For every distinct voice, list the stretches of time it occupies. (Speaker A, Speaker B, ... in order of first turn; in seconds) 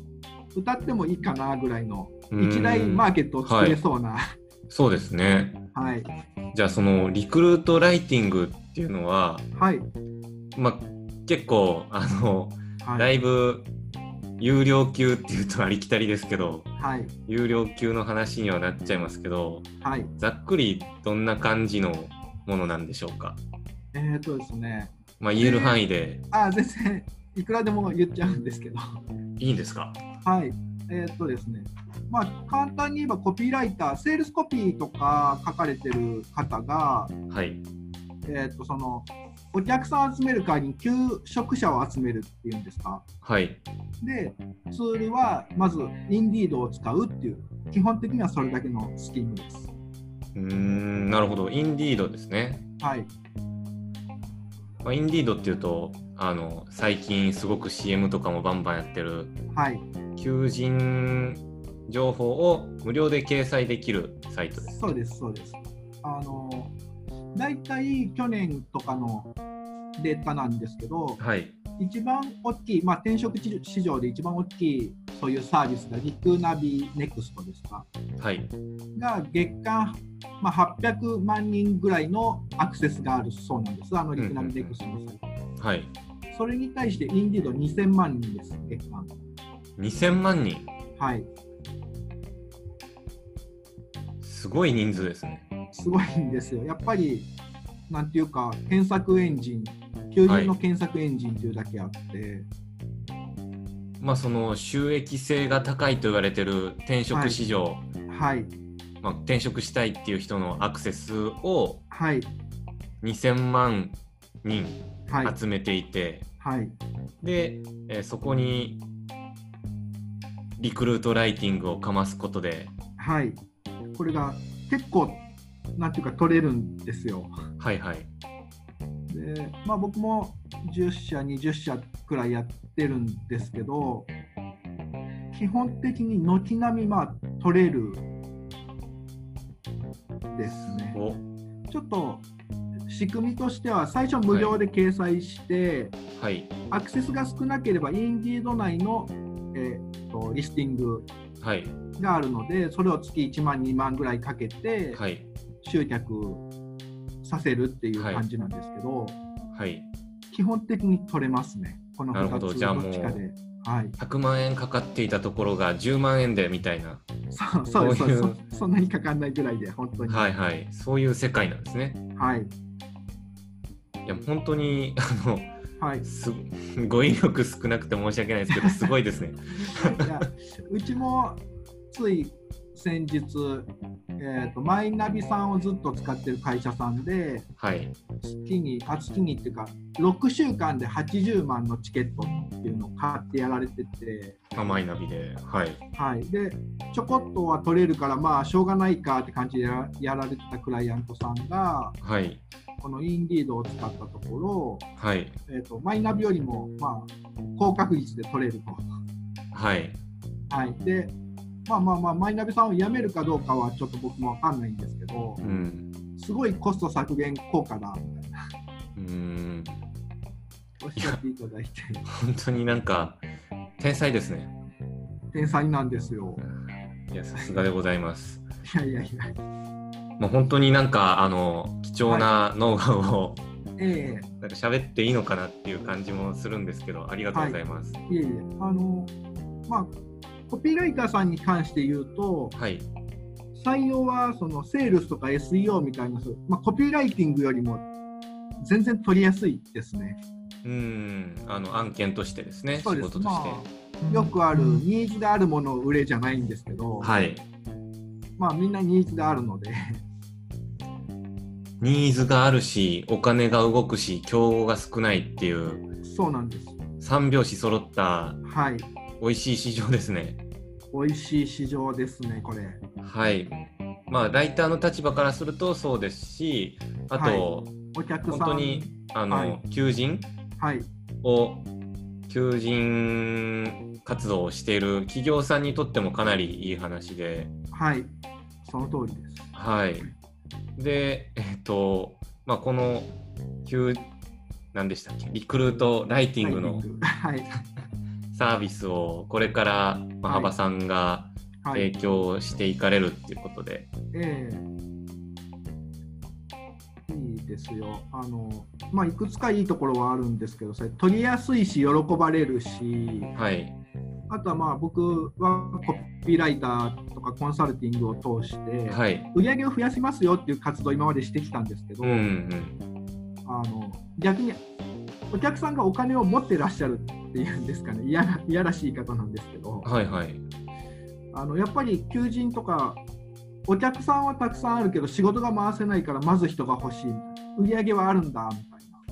Speaker A: 0.5-4.3, 5.7-6.1, 9.6-9.9, 12.8-13.1, 16.8-17.1, 19.8-20.1, 23.9-25.8, 26.3-28.9, 30.2-37.1, 38.3-43.0, 44.0-49.7, 52.8-53.1, 59.5-59.9, 64.6-66.7, 67.3-69.3, 70.0-71.2, 71.8-77.9, 79.0-85.2, 86.3-89.1, 91.0-91.3, 95.7-97.3, 97.9-102.5, 107.1-107.4, 108.1-108.5, 111.9-112.3, 115.1-115.4, 116.4-116.8, 123.0-123.4, 124.0-127.3, 129.1-134.1, 135.3-138.0, 140.3-141.0, 141.7-142.3, 142.9-146.0, 146.7-151.1, 152.0-155.0, 155.6-156.4, 157.2-159.2, 160.3-164.0, 167.3-170.3, 172.2-172.5, 175.8-176.1, 178.5-178.9, 179.7-187.5, 188.2-194.8, 195.9-202.0, 202.8-204.9, 205.5-208.9, 210.5-211.1, 211.7-215.4, 216.2-218.4, 220.8-222.1, 225.3-226.4, 227.4-227.7, 228.7-229.3, 232.1-232.3, 233.8-234.3, 237.3-239.1, 239.7-239.9, 240.5-242.6, 243.5-247.9, 248.6-250.2, 252.8-257.2, 258.4-260.0, 266.0-266.8, 268.4-268.9, 270.9-272.8, 277.1-279.6, 280.6-280.9, 287.7-288.1, 288.6-289.5, 296.4-297.5, 300.2-300.5, 301.6-301.9, 304.1-304.7, 307.1-313.3, 314.3-322.3, 323.4-324.6, 325.3-329.9, 331.3-333.0, 333.7-339.0
Speaker B: 2.3-3.8, 4.7-5.6, 6.5-9.5, 10.6-13.7, 14.4-16.7, 17.3-19.7, 20.2-23.4, 25.2-26.2, 29.4-30.0, 37.3-37.6, 43.2-43.6, 50.4-52.6, 54.8-59.4, 60.2-64.8, 71.2-71.6, 78.2-78.5, 84.2-84.8, 85.6-85.9, 89.8-90.7, 94.2-95.5, 100.3-100.5, 104.0-107.9, 109.0-111.8, 113.0-116.3, 117.2-118.8, 120.6-122.7, 127.6-128.1, 140.4-141.2, 144.3-144.6, 146.2-146.5, 151.4-151.8, 154.9-155.3, 158.0-158.2, 159.5-159.9, 162.1-163.2, 164.0-167.0, 167.8-168.4, 170.1-172.0, 174.1-175.5, 176.0-180.1, 187.6-188.0, 194.5-195.8, 202.0-202.4, 205.0-205.4, 209.5-210.0, 215.4-215.9, 219.0-219.8, 222.1-223.2, 223.8-224.5, 227.1-228.4, 230.2-233.4, 234.4-238.0, 242.6-242.9, 250.6-253.7, 257.0-257.4, 261.8-265.9, 267.0-268.4, 269.2-270.4, 273.0-273.6, 274.1-277.7, 278.3-280.3, 281.2-281.7, 282.3-287.5, 289.6-290.1, 290.8-293.1, 293.7-294.1, 294.7-296.9, 298.3-303.9, 313.4-313.8, 318.9-319.3, 322.0-322.8, 329.8-330.4